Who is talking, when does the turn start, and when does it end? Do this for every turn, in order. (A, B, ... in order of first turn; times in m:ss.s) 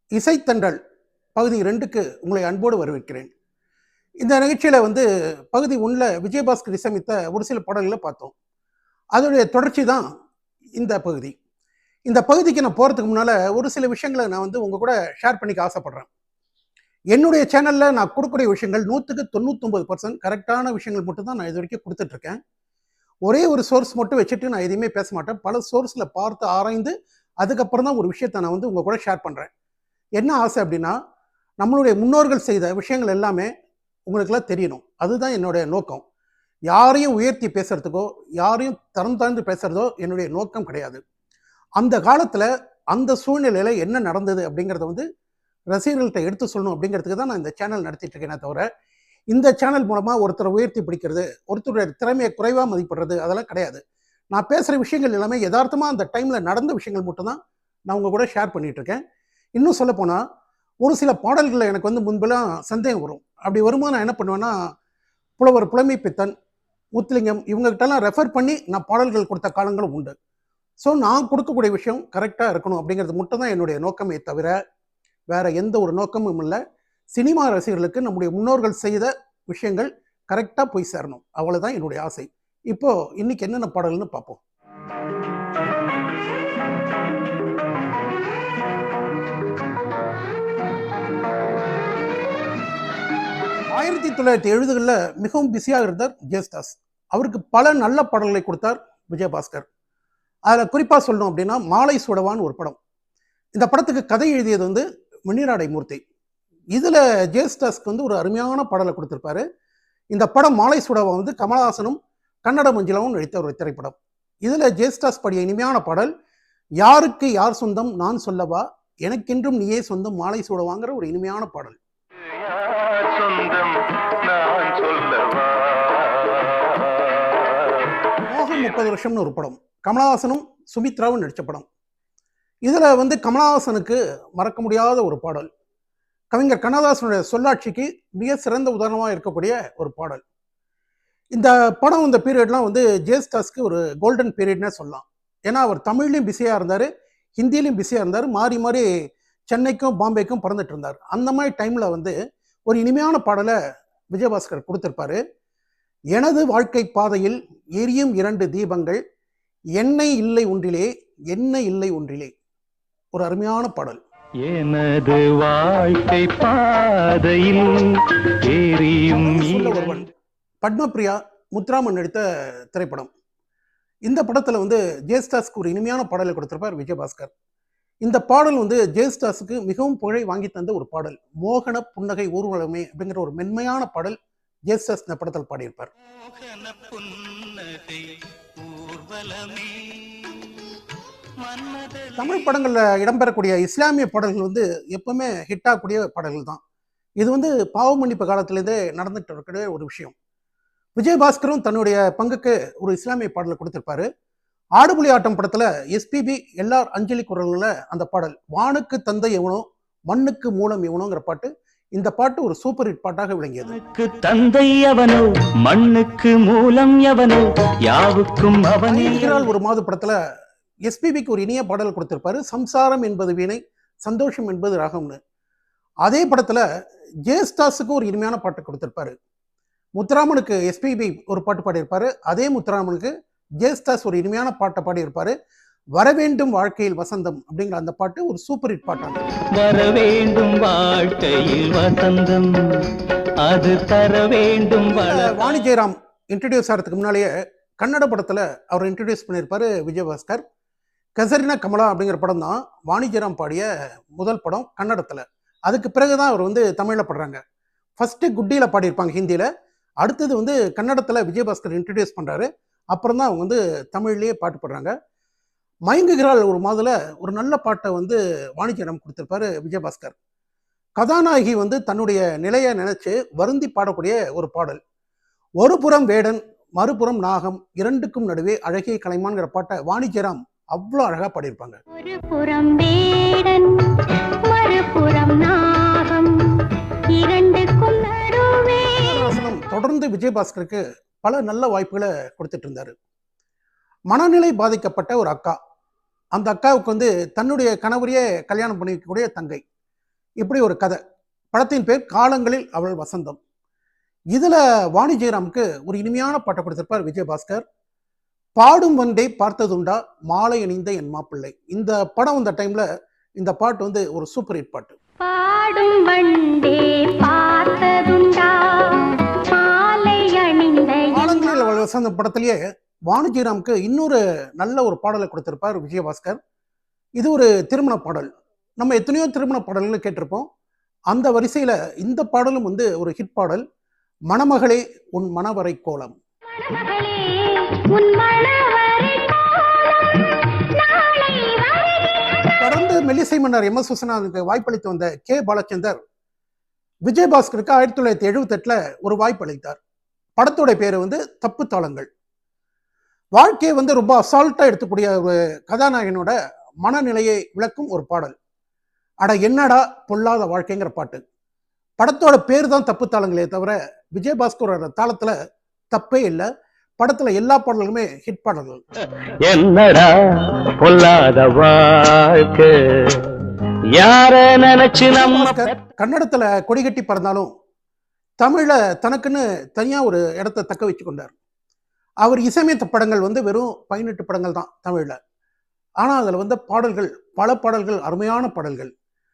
0:00.2-0:00.8 A
0:01.3-0:03.3 A
0:04.2-0:08.3 A
0:09.2-0:10.0 A
0:10.8-0:11.3 A
0:12.1-0:16.1 A
0:17.1-0:22.4 A
0:23.3-0:29.5 A
0:30.2-0:30.9 A
0:31.6-0:33.5 A
0:34.1-0:36.0 A
0:36.7-0:41.0 A
0:41.8-0:45.0 A
0:45.7-0:48.6 A
0:49.3-0:53.8 A
0:54.3-0:57.4 A
0:57.9-0:59.0 A
0:59.6-1:00.2 A
1:00.8-1:04.5 A
1:05.4-1:06.3 A
1:07.0-1:10.1 A
1:10.8-1:14.5 A
1:15.3-1:16.6 A
1:17.1-1:24.4 A
1:33.7-1:39.6 A
1:40.5-1:42.8 A
1:43.6-1:46.0 A
1:46.7-1:49.4 A
1:50.1-1:56.1 A
1:56.8-2:01.8 A
2:02.4-2:07.5 B
2:08.3-2:11.7 A
2:12.6-2:15.5 A
2:16.3-2:20.2 A
2:21.3-2:26.9 A
2:27.4-2:28.8 A
2:29.5-2:32.1 A
2:32.7-2:33.5 A
2:34.1-2:35.2 A
2:36.1-2:39.0 A
2:39.8-2:42.3 A
2:43.1-2:44.0 A
2:44.4-2:47.8 B
2:48.5-2:50.0 B
2:49.1-2:50.1 A
2:50.6-2:52.2 A
2:52.7-2:53.1 A
2:54.0-2:57.3 A
2:58.0-3:04.2 A
3:04.7-3:05.9 A
3:06.1-3:10.7 B
3:11.4-3:12.6 B
3:12.2-3:16.6 A
3:17.2-3:20.1 A
3:21.0-3:24.1 A
3:24.8-3:33.8 A
3:33.7-3:39.5 B
3:38.9-3:40.2 A
3:40.9-3:45.2 A
3:46.0-3:46.6 A
3:47.3-3:49.1 A
3:50.0-3:53.1 A
3:53.6-3:55.3 A
3:56.0-3:59.2 A
3:59.5-4:02.5 B
4:03.4-4:05.6 B
4:05.0-4:10.4 A
4:11.2-4:13.7 A
4:14.2-4:17.4 A
4:18.0-4:19.5 A
4:20.0-4:24.9 A
4:25.9-4:30.1 A
4:31.0-4:34.8 A
4:35.6-4:41.8 A
4:42.0-4:46.3 C
4:47.2-4:49.3 C
4:49.0-4:52.9 A
4:54.1-4:55.6 A
4:56.4-4:59.6 A
5:00.4-5:01.0 A
5:01.5-5:03.4 A
5:04.3-5:07.6 A
5:08.6-5:12.8 A
5:13.4-5:15.0 A
5:15.2-5:21.8 C
5:21.1-5:26.4 A
5:27.2-5:28.3 A
5:28.8-5:30.4 A
5:31.1-5:33.6 A
5:34.3-5:36.2 A
5:36.6-5:42.4 C
5:42.6-5:46.0 A
5:47.1-5:49.8 A
5:50.4-5:52.1 A
5:53.4-5:58.3 A
5:59.2-6:01.2 A
6:02.0-6:05.3 A
6:05.9-6:06.5 A
6:07.0-6:08.8 A
6:09.4-6:13.2 B
6:13.9-6:15.7 B
6:15.1-6:17.5 A
6:18.4-6:21.3 A
6:22.2-6:25.2 A
6:26.0-6:28.9 A